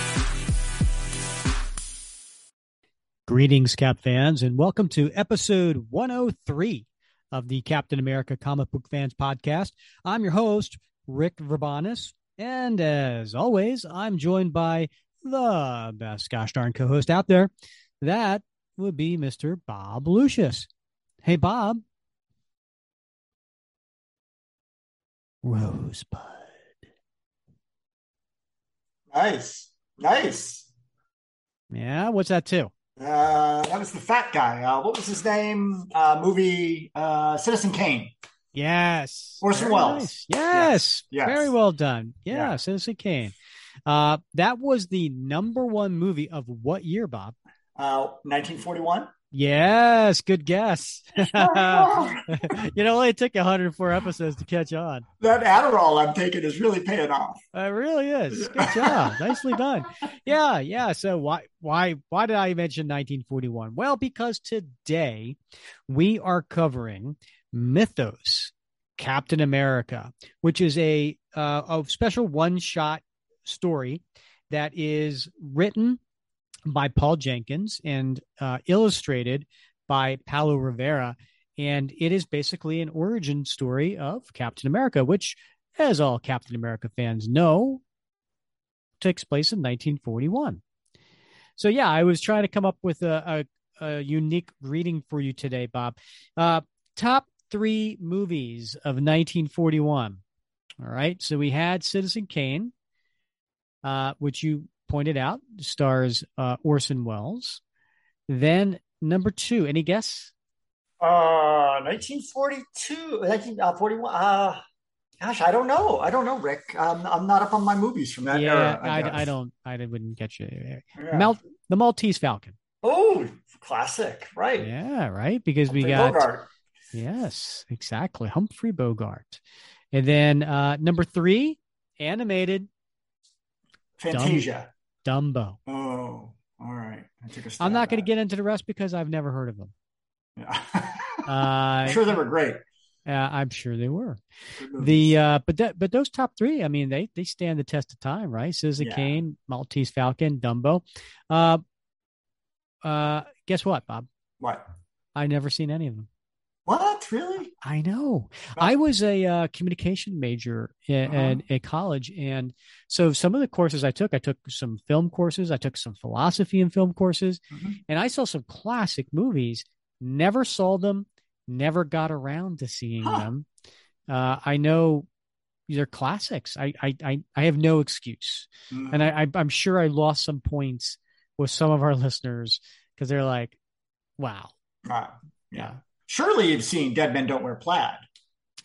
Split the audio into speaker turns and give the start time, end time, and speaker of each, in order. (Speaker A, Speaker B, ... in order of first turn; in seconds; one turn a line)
Speaker A: 3.3-17.5
Speaker A: 18.0-20.7
Speaker A: 21.2-21.8
Speaker A: 25.4-26.7
Speaker B: 29.1-30.7
Speaker A: 31.7-32.7
Speaker B: 33.0-38.1
Speaker A: 38.5-43.3
Speaker B: 39.4-41.5
Speaker A: 43.9-47.4
Speaker B: 47.8-49.1
Speaker A: 49.3-55.0
Speaker B: 51.2-52.6
Speaker B: 55.2-57.4
Speaker A: 57.5-76.0
Speaker B: 58.3-59.5
Speaker A: 76.7-87.8
Speaker A: 89.0-90.6
Speaker A: 91.6-100.2
Speaker A: 100.8-102.7
Speaker A: 103.8-107.6
Speaker A: 108.3-110.3
Speaker B: 111.0-114.6
Speaker B: 115.2-119.2
Speaker A: 118.3-122.6
Speaker B: 121.0-121.4
Speaker B: 122.8-124.7
Speaker A: 124.6-126.3
Speaker B: 125.7-126.5
Speaker A: 126.9-129.4
Speaker A: 129.9-132.7
Speaker B: 134.0-134.7
Speaker A: 134.1-134.5
Speaker A: 135.0-135.6
Speaker B: 135.7-138.1
Speaker A: 137.6-139.7
Speaker B: 140.4-141.3
Speaker A: 141.3-142.1
Speaker B: 141.8-142.6
Speaker A: 143.1-144.2
Speaker B: 144.6-145.1
Speaker A: 144.8-151.6
Speaker B: 148.8-149.1
Speaker A: 152.8-154.1
Speaker A: 155.2-156.1
Speaker B: 156.7-157.5
Speaker A: 157.6-173.5
Speaker B: 161.1-161.4
Speaker B: 167.5-167.8
Speaker B: 173.0-173.3
Speaker A: 174.1-175.1
Speaker A: 175.7-183.6
Speaker B: 178.7-179.1
Speaker A: 184.2-184.6
Speaker B: 184.8-188.1